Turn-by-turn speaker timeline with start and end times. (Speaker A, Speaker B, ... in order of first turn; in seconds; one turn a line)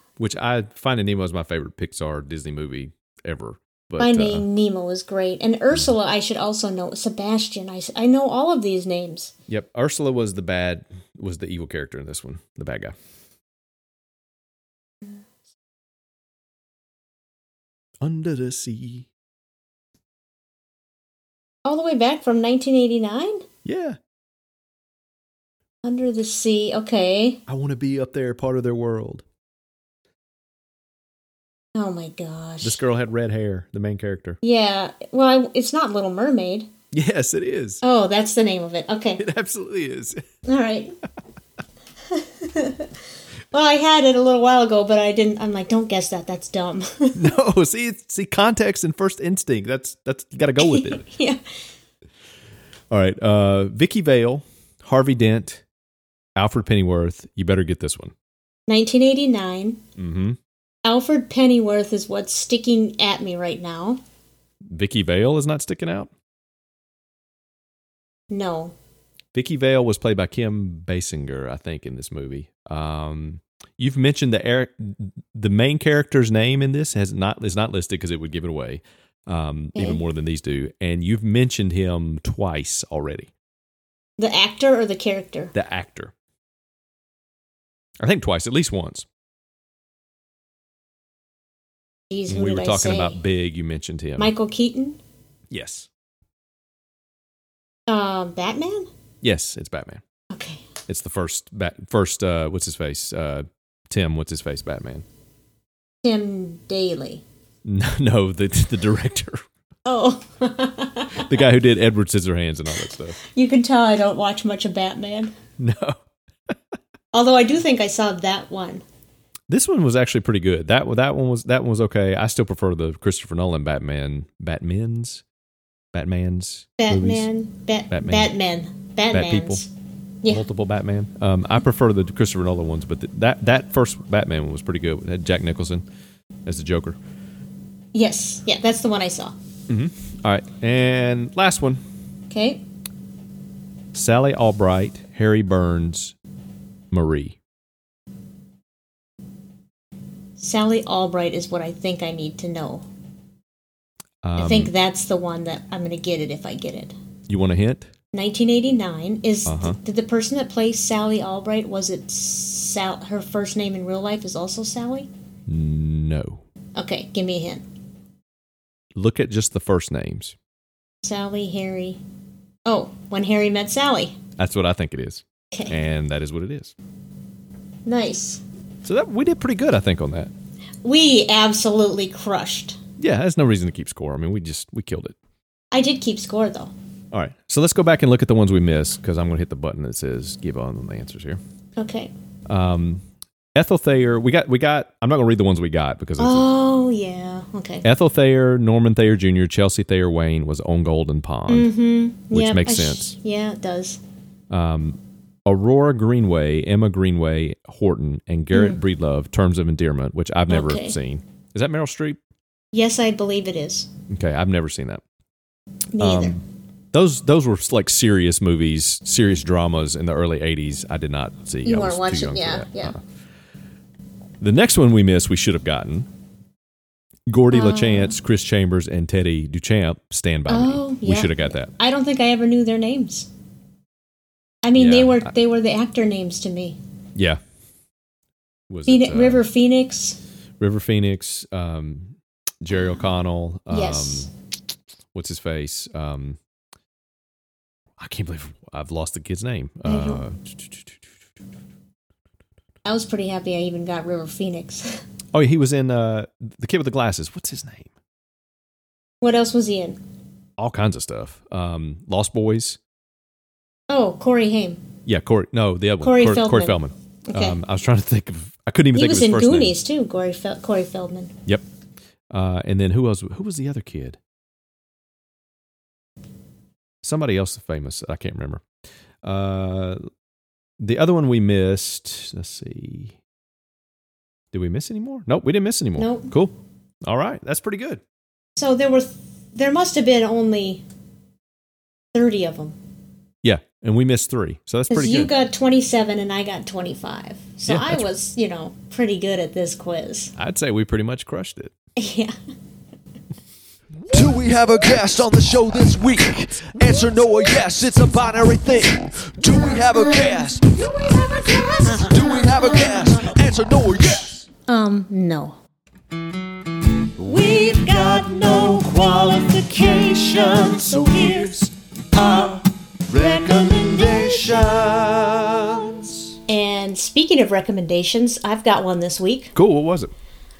Speaker A: 0.2-4.5
Speaker B: 4.0-9.3
Speaker A: 9.5-12.9
Speaker A: 18.0-19.1
Speaker B: 21.6-23.4
Speaker A: 23.6-24.0
Speaker B: 25.8-27.4
Speaker A: 27.5-29.2
Speaker B: 31.7-32.8
Speaker A: 32.6-34.4
Speaker B: 34.4-36.7
Speaker A: 36.9-37.8
Speaker B: 37.8-39.2
Speaker A: 39.2-40.2
Speaker B: 40.4-41.0
Speaker B: 42.1-42.9
Speaker B: 43.5-47.3
Speaker A: 47.1-51.1
Speaker B: 50.6-51.4
Speaker A: 52.9-55.6
Speaker A: 56.4-58.1
Speaker B: 58.7-59.8
Speaker A: 60.0-60.4
Speaker B: 60.8-64.0
Speaker A: 64.7-66.1
Speaker B: 68.3-68.7
Speaker A: 69.3-83.3
Speaker B: 79.7-80.0
Speaker B: 84.2-85.5
Speaker A: 85.5-86.1
Speaker A: 88.0-89.0
Speaker B: 92.1-93.2
Speaker A: 92.3-94.3
Speaker B: 94.2-95.0
Speaker A: 95.5-95.9
Speaker B: 97.9-98.9
Speaker A: 99.2-100.0
Speaker B: 100.3-100.6
Speaker A: 100.9-105.0
Speaker B: 106.0-107.2
Speaker A: 107.6-109.4
Speaker B: 109.8-111.3
Speaker A: 111.1-113.2
Speaker B: 113.2-115.3
Speaker A: 115.6-116.0
Speaker B: 117.1-118.8
Speaker A: 119.5-125.2
Speaker A: 125.9-127.3
Speaker B: 126.8-129.7
Speaker A: 127.9-128.3
Speaker A: 129.1-129.6
Speaker A: 130.3-135.8
Speaker A: 136.4-137.0
Speaker B: 137.9-139.3
Speaker A: 139.7-141.8
Speaker B: 142.3-142.6
Speaker A: 143.9-146.1
Speaker A: 146.9-147.4
Speaker B: 150.4-152.8
Speaker A: 154.2-154.7
Speaker B: 154.4-156.9
Speaker A: 157.3-157.9
Speaker B: 158.1-165.1
Speaker A: 159.5-159.8
Speaker A: 165.5-166.4
Speaker B: 166.8-167.6
Speaker A: 168.9-170.3
Speaker B: 171.0-172.0
Speaker B: 172.6-174.2
Speaker A: 174.4-176.7
Speaker B: 177.8-178.4
Speaker A: 178.8-180.3
Speaker B: 180.8-182.8
Speaker A: 183.0-185.2
Speaker B: 185.7-186.7
Speaker A: 187.1-191.4
Speaker B: 191.8-192.1
Speaker A: 192.5-193.0
Speaker A: 193.5-196.5
Speaker B: 196.2-197.8
Speaker A: 197.8-201.7
Speaker B: 201.5-204.0
Speaker A: 202.3-203.2
Speaker A: 204.5-212.2
Speaker B: 208.5-208.8
Speaker B: 210.5-211.0
Speaker B: 212.7-213.9
Speaker A: 214.1-215.0
Speaker B: 215.9-216.4
Speaker A: 216.0-223.0
Speaker B: 221.6-222.9
Speaker A: 224.4-226.1
Speaker A: 227.3-231.7
Speaker B: 227.5-228.2
Speaker B: 230.5-233.3
Speaker B: 234.6-236.8
Speaker A: 234.7-235.3
Speaker A: 238.7-239.4
Speaker B: 238.9-240.2
Speaker A: 240.6-244.3
Speaker B: 243.7-244.3
Speaker A: 245.1-246.4
Speaker A: 248.0-250.9
Speaker B: 249.8-250.2
Speaker B: 252.8-255.0
Speaker A: 255.3-257.9
Speaker B: 259.2-260.0
Speaker A: 260.6-262.8
Speaker B: 263.9-264.8
Speaker A: 265.1-269.8
Speaker B: 266.0-267.6
Speaker B: 268.9-271.3
Speaker A: 272.3-274.2
Speaker A: 277.0-278.6
Speaker A: 279.2-280.0
Speaker A: 280.8-283.1
Speaker A: 284.5-286.5
Speaker B: 286.0-286.3
Speaker A: 287.1-288.0
Speaker B: 288.6-290.8
Speaker B: 292.1-292.8
Speaker A: 293.4-295.3
Speaker B: 294.9-300.3
Speaker A: 297.6-298.1
Speaker A: 300.4-301.7
Speaker B: 302.0-302.3
Speaker C: 304.1-314.4
Speaker B: 314.7-315.6
Speaker C: 317.2-326.1
Speaker B: 326.5-329.5
Speaker A: 329.5-330.1